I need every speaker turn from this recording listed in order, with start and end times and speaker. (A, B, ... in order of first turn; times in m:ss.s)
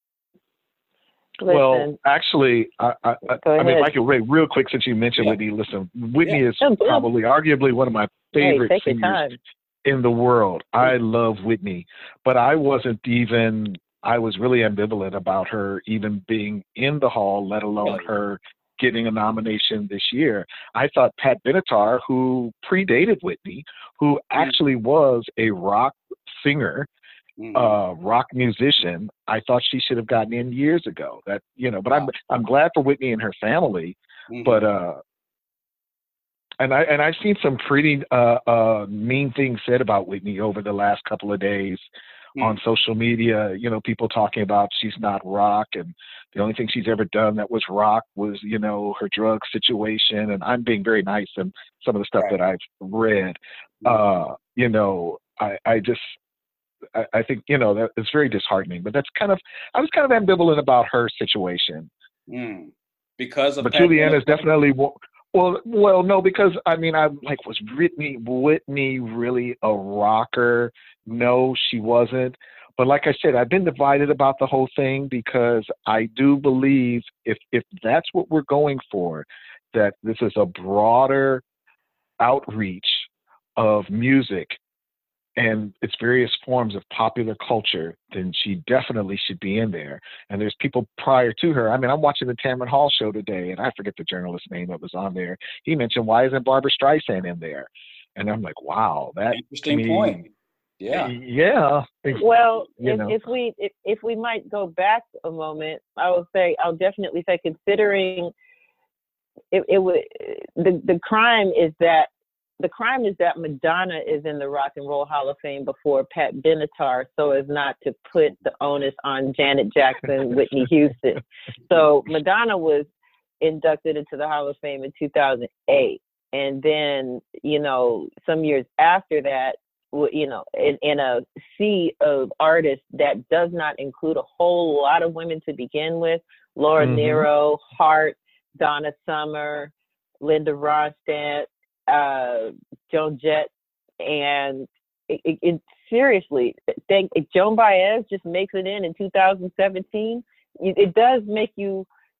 0:01.4-0:02.0 A
0:01.5-0:09.2 B
0:03.4-0:03.9 A
0:06.6-0:07.1 A
0:08.4-0:09.4 A
0:09.8-0:26.9 B
0:17.8-0:18.1 C
0:27.4-0:27.8 C
0:27.5-0:35.0 B
0:34.3-0:34.6 C
0:36.6-0:41.9 B
0:42.4-0:56.2 B
0:56.9-1:01.9 B
1:02.3-1:04.5 C
1:03.6-1:21.4 B
1:22.2-1:24.6 B
1:25.4-1:40.3 B
1:39.3-1:40.3 C
1:40.8-1:41.1 C
1:40.9-1:43.2 B
1:42.2-1:48.3 A
1:49.5-2:02.9 A
2:03.4-2:31.9 A
2:16.8-2:17.3 B